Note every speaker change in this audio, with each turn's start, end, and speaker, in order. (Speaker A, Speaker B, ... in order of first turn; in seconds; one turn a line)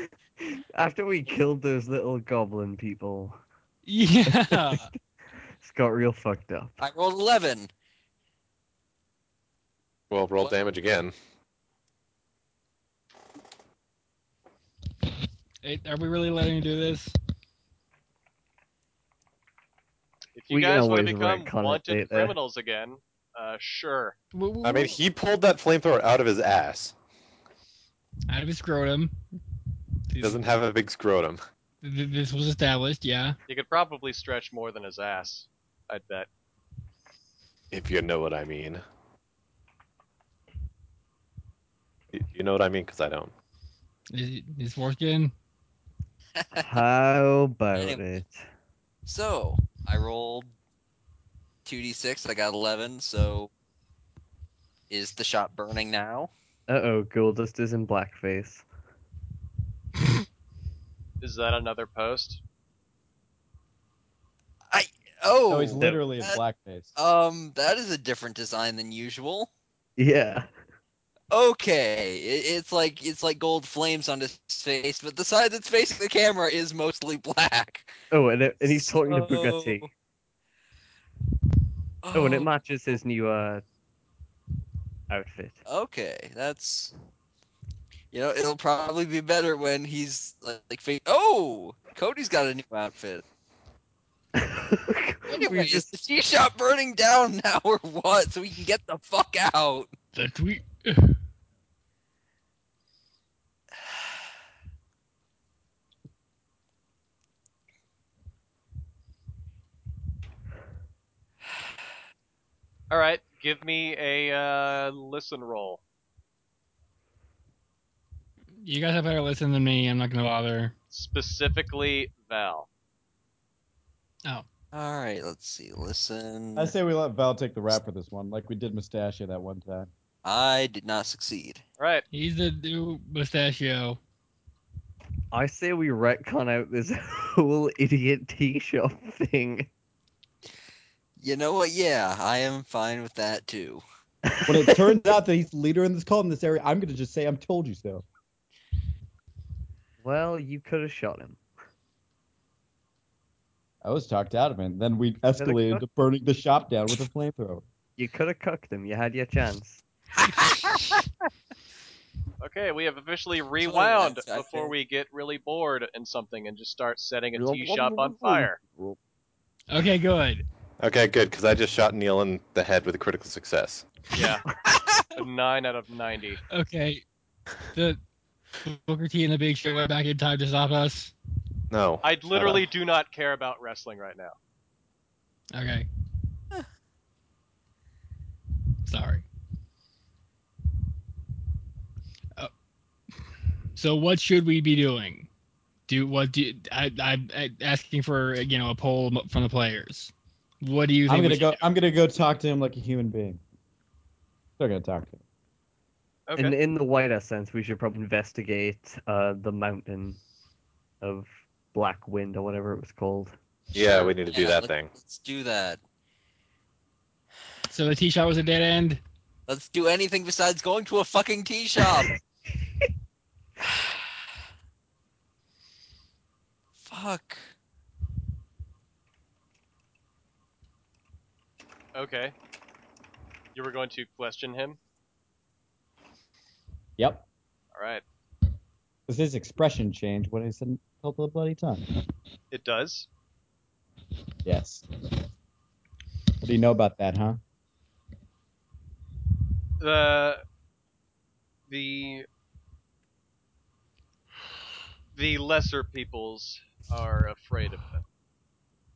Speaker A: 0.4-3.4
Speaker B: 3.9-4.9
Speaker A: 4.5-4.8
Speaker A: 5.6-6.8
Speaker C: 6.8-7.7
Speaker D: 10.1-11.1
Speaker B: 15.6-17.1
Speaker E: 20.4-24.2
Speaker A: 20.5-22.4
Speaker B: 24.3-25.0
Speaker D: 24.6-26.9
Speaker B: 28.3-29.2
Speaker B: 30.1-30.4
Speaker D: 30.2-31.4
Speaker B: 31.8-33.4
Speaker E: 33.5-36.3
Speaker D: 37.7-38.8
Speaker D: 42.1-43.3
Speaker B: 44.1-45.3
Speaker C: 46.4-46.7
Speaker A: 46.5-48.4
Speaker C: 49.1-50.5
Speaker C: 51.6-53.5
Speaker C: 54.9-56.3
Speaker A: 56.7-58.6
Speaker E: 61.2-62.4
Speaker C: 64.7-66.4
Speaker F: 65.5-66.9
Speaker C: 67.0-69.5
Speaker A: 70.0-70.5
Speaker C: 71.3-78.0
Speaker A: 78.1-79.9
Speaker C: 78.7-79.9
Speaker C: 82.0-82.5
Speaker A: 82.1-83.6
Speaker A: 85.1-85.6
Speaker C: 85.7-86.9
Speaker C: 88.1-93.2
Speaker A: 94.3-96.0
Speaker C: 95.3-99.9
Speaker B: 100.1-101.2
Speaker E: 112.9-115.8
Speaker B: 118.6-120.7
Speaker E: 120.9-122.7
Speaker C: 124.7-126.8
Speaker F: 126.6-129.9
Speaker C: 130.2-131.6
Speaker E: 131.8-132.0
Speaker B: 132.1-134.0
Speaker A: 135.3-139.7
Speaker C: 141.2-143.8
Speaker A: 144.3-145.0
Speaker F: 144.5-148.1
Speaker A: 150.0-151.4
Speaker F: 153.8-157.6
Speaker A: 155.4-155.8
Speaker A: 158.0-159.8
Speaker C: 160.4-160.7
Speaker E: 162.4-168.6
Speaker C: 163.6-164.7
Speaker A: 167.3-169.0
Speaker B: 169.7-170.4
Speaker D: 170.8-173.9
Speaker E: 174.1-174.4
Speaker E: 175.2-176.4
Speaker B: 176.5-177.0
Speaker B: 177.7-178.0
Speaker B: 178.7-181.1
Speaker D: 181.7-182.7
Speaker E: 182.0-184.4
Speaker B: 185.5-185.9
Speaker B: 188.9-189.2
Speaker B: 193.8-195.3
Speaker B: 195.9-201.6
Speaker F: 201.1-203.4
Speaker F: 204.6-205.2
Speaker E: 206.3-206.6
Speaker A: 206.4-210.2
Speaker A: 211.0-213.4
Speaker D: 213.7-214.9
Speaker C: 213.7-215.8
Speaker B: 217.7-219.0
Speaker C: 219.5-222.2
Speaker A: 221.8-222.1
Speaker C: 226.8-227.4
Speaker E: 231.9-232.3
Speaker E: 233.6-234.8
Speaker F: 237.0-237.3
Speaker E: 237.7-238.0
Speaker F: 239.1-241.8
Speaker E: 242.5-243.1
Speaker F: 244.4-244.9
Speaker F: 246.4-247.4
Speaker E: 249.8-250.4
Speaker E: 251.7-252.3
Speaker E: 255.1-258.0